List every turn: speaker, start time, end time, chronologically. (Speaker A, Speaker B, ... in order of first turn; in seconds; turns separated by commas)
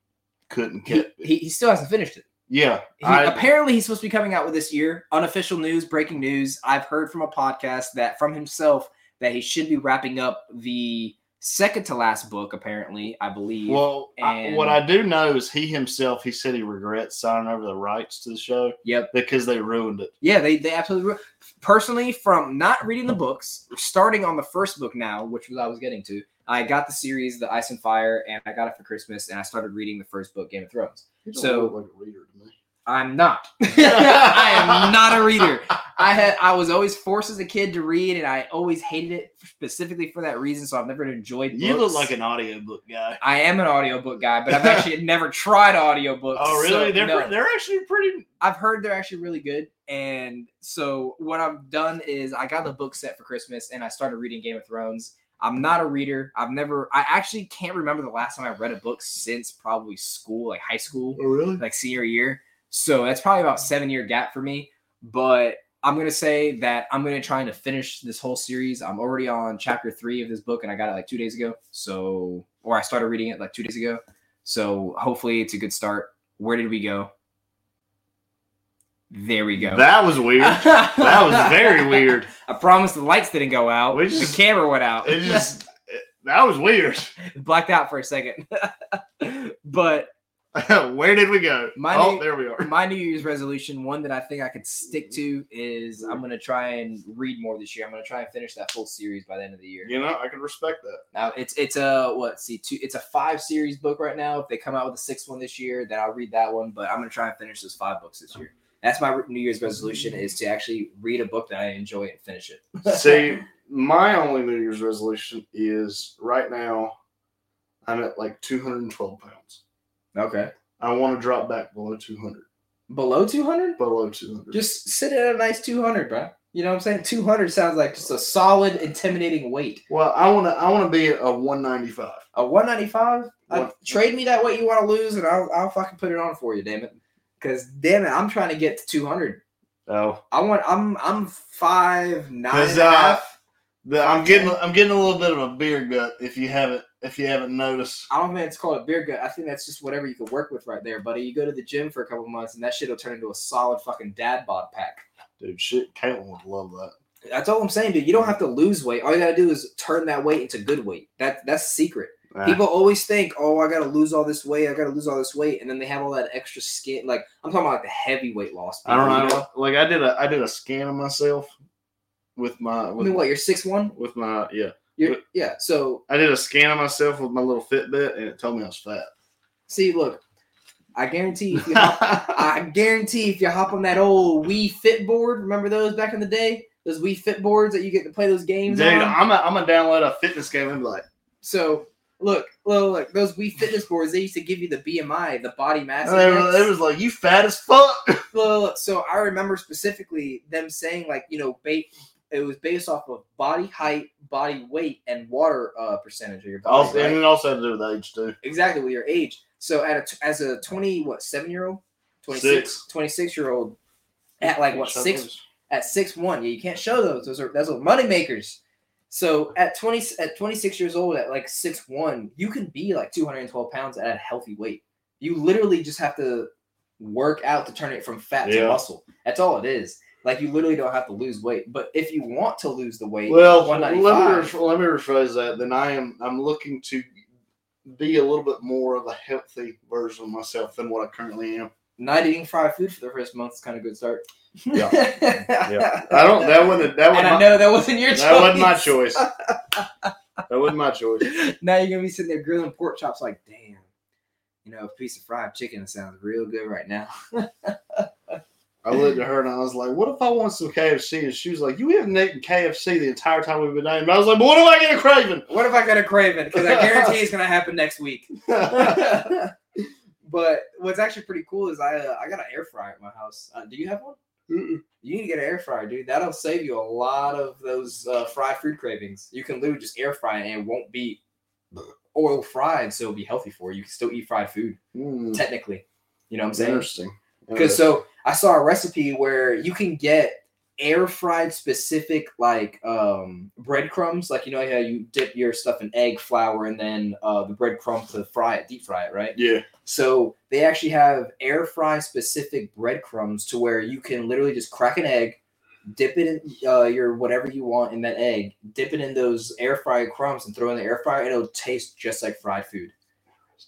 Speaker A: 0.5-1.2, Speaker B: 0.9-2.2, Speaker A: 2.5-3.4, Speaker B: 3.0-14.8, Speaker A: 13.7-20.1, Speaker B: 18.8-19.1, Speaker B: 20.2-31.7, Speaker A: 31.2-32.5, Speaker B: 32.9-42.1, Speaker A: 33.8-35.5, Speaker A: 41.5-43.2, Speaker B: 43.2-47.3, Speaker A: 44.5-44.8, Speaker A: 46.3-48.3, Speaker B: 48.4-77.1, Speaker A: 61.2-61.6, Speaker B: 79.1-85.5, Speaker A: 79.6-82.3, Speaker A: 83.9-84.4, Speaker A: 85.0-87.1, Speaker B: 87.2-90.1, Speaker A: 90.5-92.7, Speaker B: 91.8-99.9, Speaker A: 99.8-101.0, Speaker B: 101.1-113.3, Speaker A: 112.8-116.9, Speaker A: 117.8-119.6, Speaker B: 120.1-120.5, Speaker A: 120.8-122.5, Speaker B: 122.9-123.8, Speaker A: 123.8-124.6, Speaker B: 124.5-129.8, Speaker A: 129.9-132.2, Speaker B: 132.3-139.4, Speaker A: 139.9-140.2, Speaker B: 140.3-143.3, Speaker A: 142.5-143.2, Speaker A: 143.8-148.1, Speaker B: 144.0-144.5, Speaker B: 148.1-155.0, Speaker A: 155.4-156.9, Speaker B: 157.2-169.4, Speaker A: 162.3-162.6, Speaker A: 168.8-171.5, Speaker A: 172.3-173.2, Speaker B: 173.0-173.9, Speaker A: 173.9-175.2, Speaker B: 175.0-176.0, Speaker A: 176.1-179.1, Speaker B: 179.7-180.2, Speaker B: 180.9-189.2, Speaker A: 181.5-182.4, Speaker A: 188.7-191.0, Speaker B: 191.4-196.7, Speaker A: 196.0-198.2, Speaker B: 198.3-207.2, Speaker A: 206.6-208.4, Speaker B: 208.4-213.8, Speaker A: 212.3-212.8, Speaker B: 214.4-218.6, Speaker A: 214.4-215.4, Speaker B: 219.1-234.5, Speaker A: 228.4-228.8, Speaker A: 233.3-237.1, Speaker A: 237.8-241.7, Speaker B: 242.0-250.1, Speaker A: 244.7-249.2, Speaker A: 250.5-251.3, Speaker B: 251.2-253.8, Speaker B: 254.6-258.3, Speaker A: 258.8-265.5, Speaker B: 265.5-269.5, Speaker A: 266.6-267.1, Speaker A: 268.5-269.3, Speaker B: 270.2-274.1, Speaker A: 274.5-274.8, Speaker B: 275.0-281.2, Speaker B: 282.1-284.8, Speaker A: 284.9-285.4, Speaker B: 285.3-286.9, Speaker A: 286.5-287.8, Speaker B: 287.5-312.9, Speaker A: 299.3-299.7